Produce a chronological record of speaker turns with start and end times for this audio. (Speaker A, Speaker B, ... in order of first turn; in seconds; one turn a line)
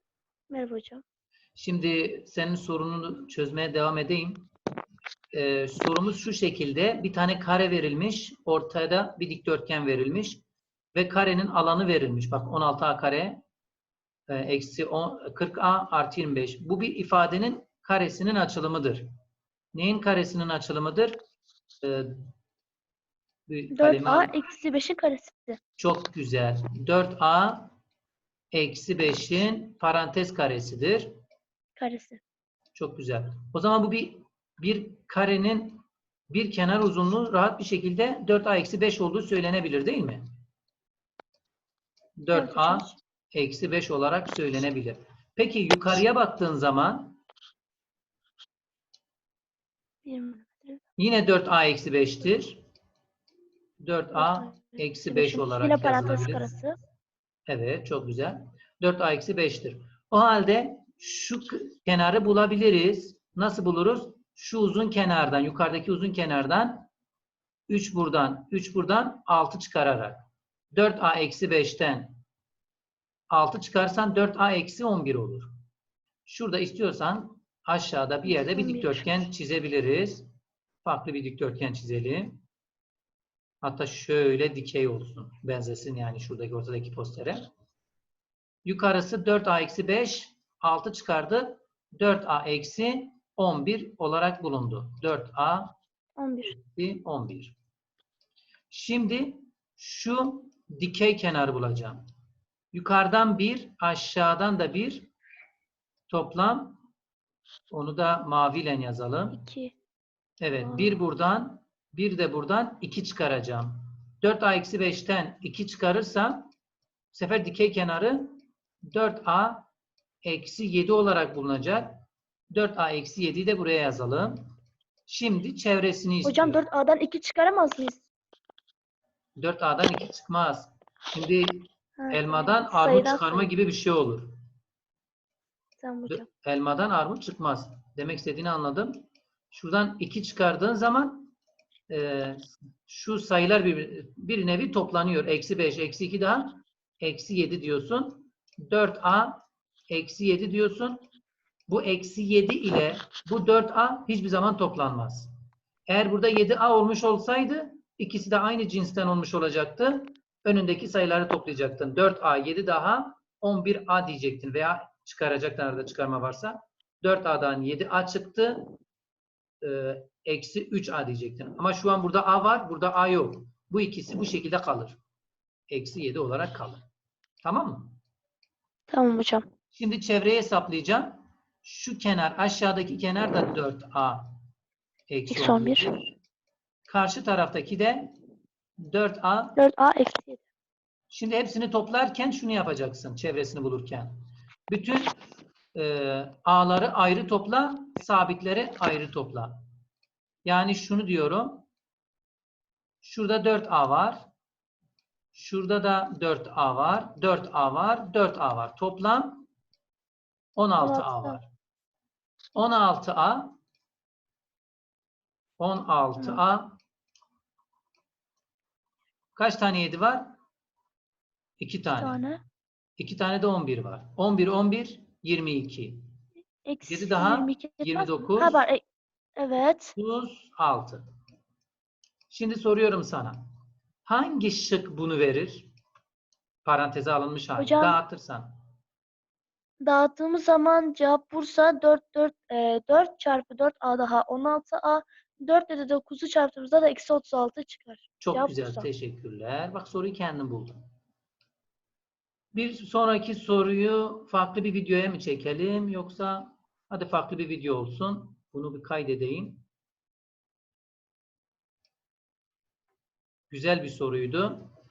Speaker A: 0.5-1.0
Speaker B: 1.6-4.5
Speaker B: 5.3-10.4
Speaker B: 10.9-13.4
Speaker B: 14.3-19.1
Speaker B: 19.7-21.2
Speaker B: 21.8-22.2
Speaker B: 23.5-24.3
Speaker A: 23.7-25.6
Speaker B: 25.8-27.7
Speaker B: 28.5-31.1
Speaker A: 31.8-32.2
Speaker B: 32.7-40.2
Speaker B: 42.2-47.2
Speaker A: 42.3-43.0
Speaker A: 50.0-50.8
Speaker B: 51.0-52.6
Speaker B: 53.8-56.5
Speaker A: 54.1-56.8
Speaker B: 57.5-66.9
Speaker B: 67.7-72.2
Speaker B: 73.3-75.5
Speaker B: 76.2-80.3
Speaker A: 78.2-79.2
Speaker B: 80.8-82.4
Speaker B: 83.6-87.5
Speaker B: 88.6-95.7
Speaker A: 96.2-96.5
Speaker B: 96.4-97.5
Speaker B: 98.7-102.0
Speaker B: 102.7-105.1
Speaker B: 106.1-106.8
Speaker B: 107.7-109.4
Speaker A: 109.3-109.7
Speaker B: 110.4-116.5
Speaker A: 110.6-111.0
Speaker B: 117.1-118.4
Speaker B: 118.9-119.7
Speaker B: 120.2-124.4
Speaker B: 125.1-126.6
Speaker A: 126.2-128.0
Speaker B: 129.4-134.3
Speaker A: 132.0-133.5
Speaker A: 135.8-136.2
Speaker B: 136.1-141.3
Speaker B: 141.9-151.1
Speaker B: 151.7-155.3
Speaker B: 155.9-168.7
Speaker B: 169.6-175.0
Speaker B: 175.7-176.8
Speaker B: 177.4-177.9
Speaker A: 178.9-179.4
Speaker B: 179.7-184.3
Speaker B: 185.1-186.1
Speaker A: 185.3-185.9
Speaker B: 186.9-188.1
Speaker B: 188.9-189.6
Speaker A: 189.6-190.4
Speaker B: 191.1-194.1
Speaker B: 194.7-195.1
Speaker B: 195.7-199.6
Speaker B: 200.4-201.7
Speaker B: 203.0-204.2
Speaker B: 205.3-209.5
Speaker B: 210.6-211.4
Speaker A: 210.8-211.4
Speaker B: 212.5-213.6
Speaker B: 215.6-216.8
Speaker B: 219.3-220.3
Speaker B: 221.6-222.2
Speaker A: 222.0-222.4
Speaker B: 223.0-226.0
Speaker A: 226.6-228.8
Speaker B: 226.8-228.6
Speaker A: 229.4-229.9
Speaker B: 229.9-231.1
Speaker B: 232.3-233.4
Speaker B: 234.0-235.7
Speaker B: 236.6-238.5
Speaker A: 237.6-238.0
Speaker A: 239.8-248.9
Speaker B: 248.2-250.8
Speaker B: 252.5-259.6
Speaker B: 263.5-264.7